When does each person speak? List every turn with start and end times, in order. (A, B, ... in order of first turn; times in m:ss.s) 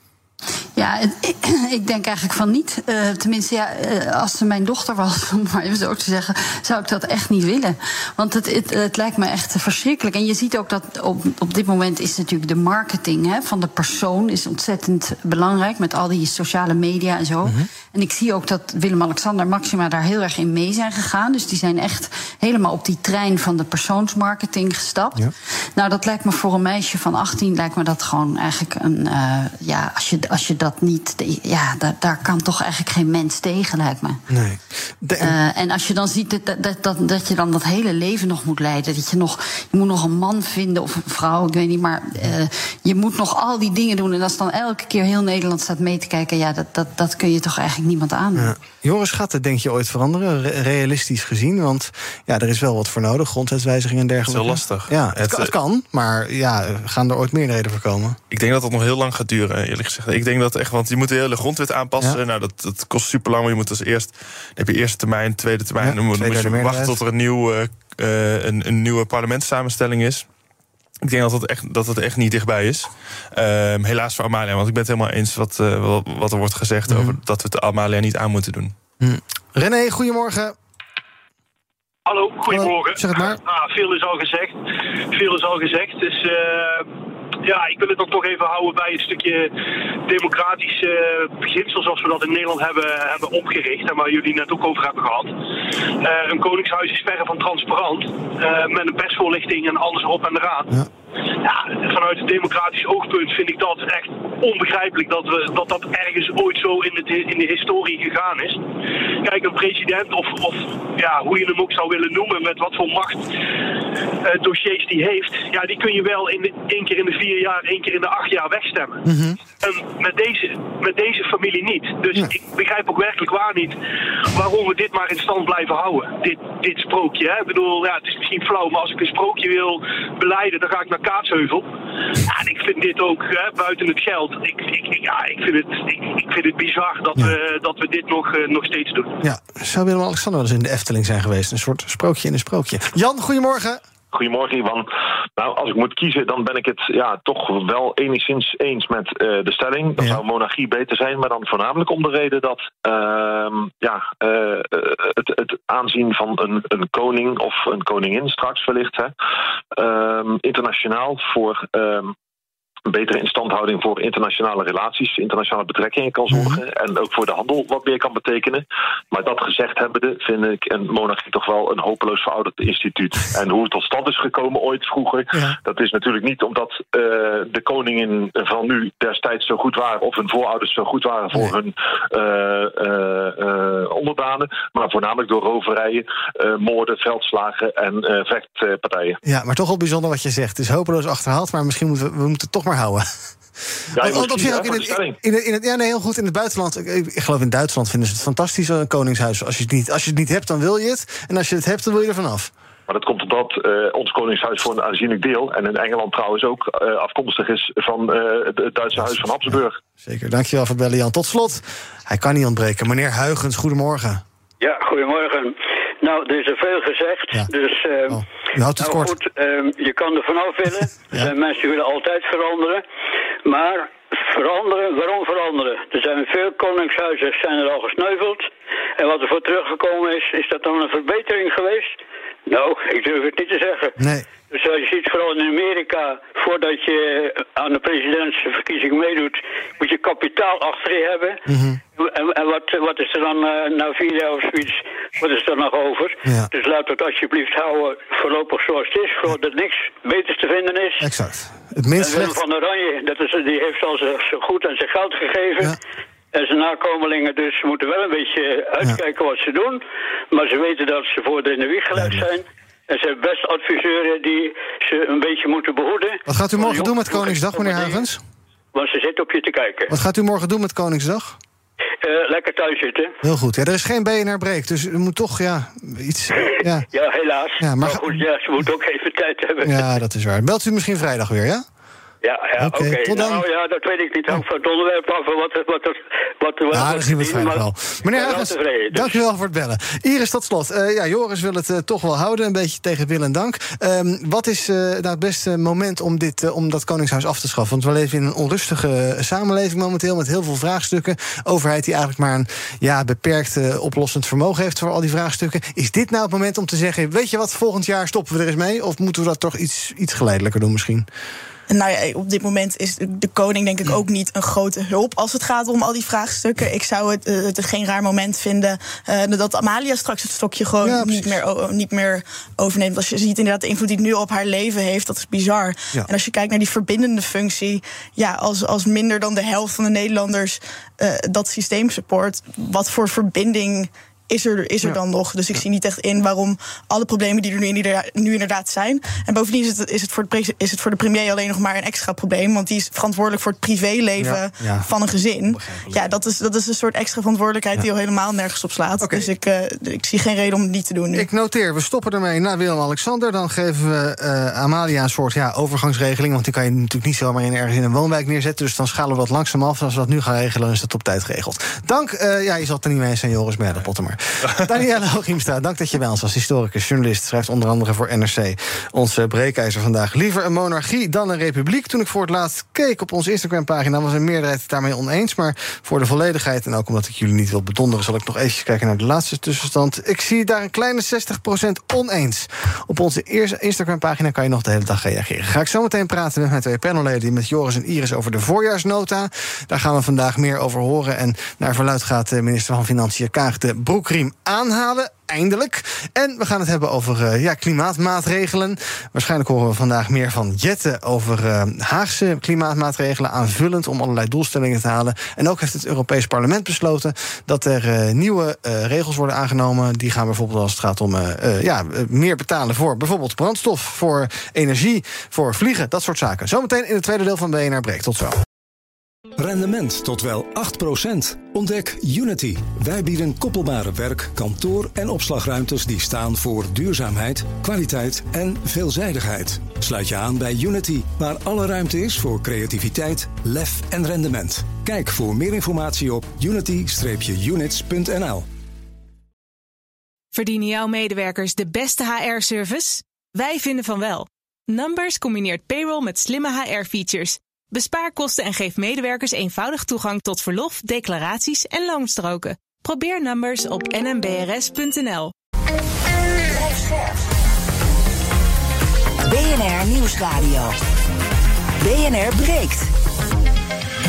0:00.8-0:34.2 A
0:34.3-0:35.4 B
0:35.2-0:48.5 A
0:48.3-0:58.2 B
0:54.2-0:55.5 C
0:58.3-1:10.2 C
1:05.8-1:07.0 B
1:11.0-1:18.7 C
1:16.9-1:17.2 B
1:19.0-1:20.6 B
1:22.1-1:24.5 D
1:22.5-1:23.4 B
1:25.1-1:26.8 D
1:27.4-1:29.5 D
1:30.1-1:35.3 D
1:36.0-1:40.7 D
1:41.4-1:48.6 D
1:49.2-1:53.2 D
1:54.2-1:59.0 D
1:59.0-1:59.4 B
1:59.6-2:03.8 D
2:04.3-2:11.6 D
2:12.2-2:19.2 D
2:19.2-2:23.8 B
2:24.1-2:39.1 E
2:39.7-2:42.1 E
2:42.9-3:09.2 E
2:46.3-2:46.6 B
3:09.2-3:13.0 B
3:13.9-3:15.2 E
3:14.0-3:22.5 B
3:22.9-3:29.8 E
3:30.0-3:34.2 B
3:34.6-3:38.2 F
3:38.1-3:39.1 B
3:38.8-3:42.8 F
3:43.4-3:48.5 F
3:49.0-3:51.9 F
3:52.5-3:54.0 F
3:54.0-3:54.3 B
3:54.5-4:01.4 F
4:01.5-4:01.8 B
4:02.0-4:11.0 F
4:11.0-4:12.4 B
4:12.0-4:15.8 F
4:16.3-4:19.8 F
4:20.3-4:28.1 F
4:21.9-4:22.3 B
4:26.3-4:28.2 B
4:28.7-4:29.9 F
4:29.9-4:31.4 B
4:32.0-4:33.1 F
4:33.2-4:36.9 B
4:36.9-4:39.9 F
4:37.6-4:38.2 B
4:39.6-4:41.6 B
4:42.2-4:49.2 F
4:42.6-4:43.4 B
4:46.7-5:11.1 B
5:11.7-5:51.3 G
5:20.8-5:21.4 B
5:44.2-5:44.9 B
5:45.5-5:46.1 B
5:49.0-5:49.2 B
5:51.1-6:58.4 B
6:59.4-7:18.4 H
7:20.3-7:35.3 I
7:36.5-7:37.2 J
7:39.2-7:40.7 J
7:41.8-7:42.9 J